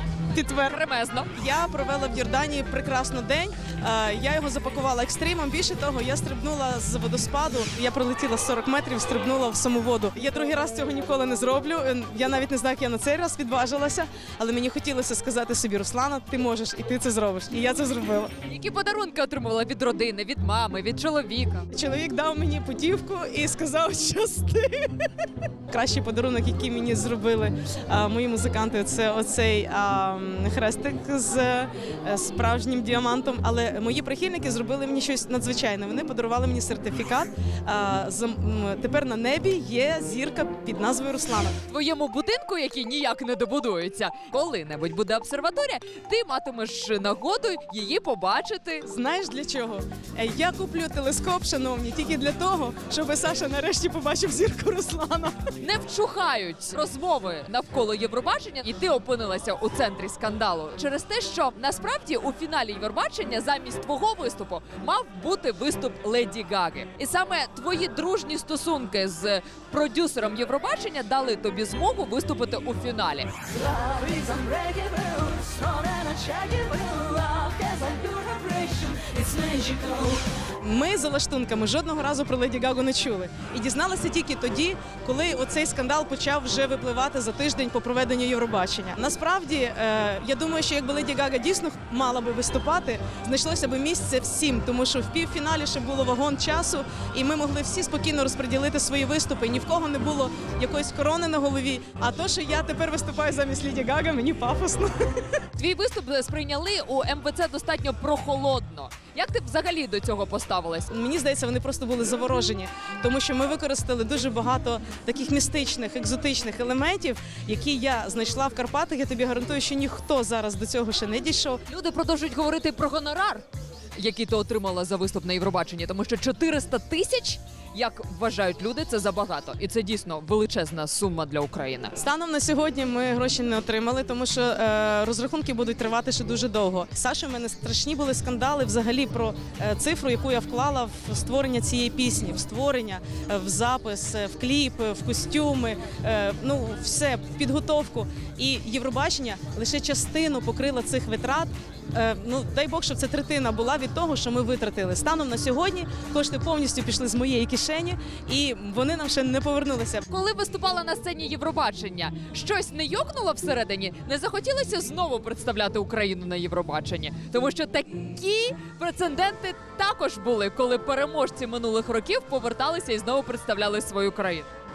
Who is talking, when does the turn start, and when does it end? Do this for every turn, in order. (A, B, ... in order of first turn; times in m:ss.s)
0:00.3-0:00.8 A
0:00.5-0:01.3 B
0:01.4-0:18.3 A
0:18.4-0:21.7 B
0:21.7-0:25.1 A
0:25.7-0:41.6 A
0:41.7-0:48.9 B
0:48.8-0:55.5 A
0:55.6-1:20.2 B
1:20.6-1:45.2 A
1:45.6-1:50.9 B
1:50.9-2:01.6 A
2:01.7-2:03.4 B
2:04.0-2:12.0 B
2:12.0-2:40.0 A
2:40.1-2:54.5 B